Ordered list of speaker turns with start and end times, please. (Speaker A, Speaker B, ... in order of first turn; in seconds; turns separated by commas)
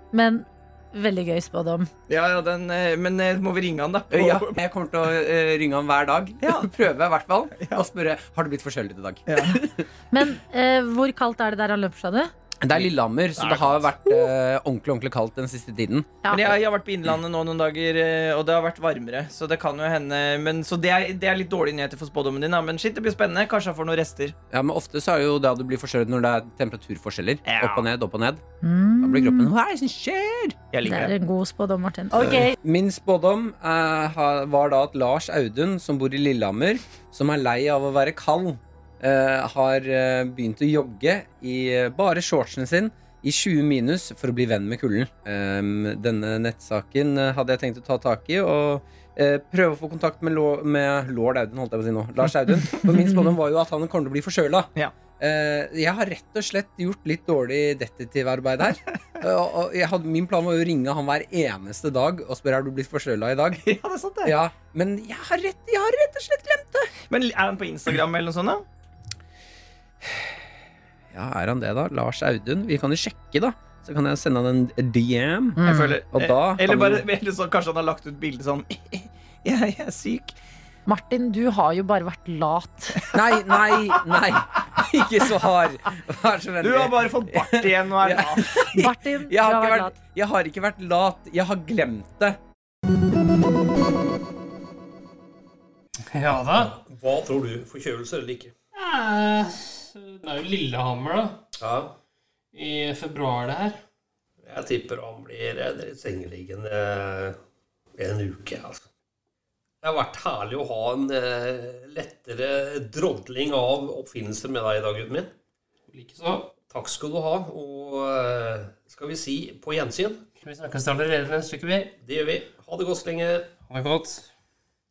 Speaker A: 0.1-1.9, Speaker B: 2.1-4.6, Speaker C: 4.1-9.8, Speaker B: 6.4-6.7, Speaker B: 9.3-9.6, Speaker A: 10.1-12.3, Speaker C: 12.6-16.5, Speaker B: 12.7-14.2, Speaker A: 16.2-16.5, Speaker B: 16.3-24.3, Speaker C: 24.5-28.4, Speaker B: 27.4-27.9, Speaker A: 28.6-29.5, Speaker C: 29.0-30.6, Speaker B: 30.7-31.1, Speaker A: 30.8-32.5, Speaker C: 32.1-63.6, Speaker B: 63.5-64.3, Speaker C: 64.2-66.9, Speaker B: 67.0-68.6, Speaker C: 71.1-77.1, Speaker A: 75.6-76.0, Speaker B: 75.6-80.3, Speaker A: 80.8-83.1, Speaker C: 83.1-92.4, Speaker B: 86.6-88.5, Speaker A: 88.7-90.0, Speaker D: 96.1-96.7, Speaker E: 96.5-98.5, Speaker D: 98.7-101.4, Speaker E: 101.6-102.0, Speaker D: 102.5-103.8, Speaker E: 104.4-107.3, Speaker E: 108.0-108.8, Speaker E: 109.8-115.3, Speaker D: 115.9-116.5, Speaker E: 116.7-120.2, Speaker D: 120.4-121.9, Speaker E: 122.0-123.5, Speaker D: 123.7-124.3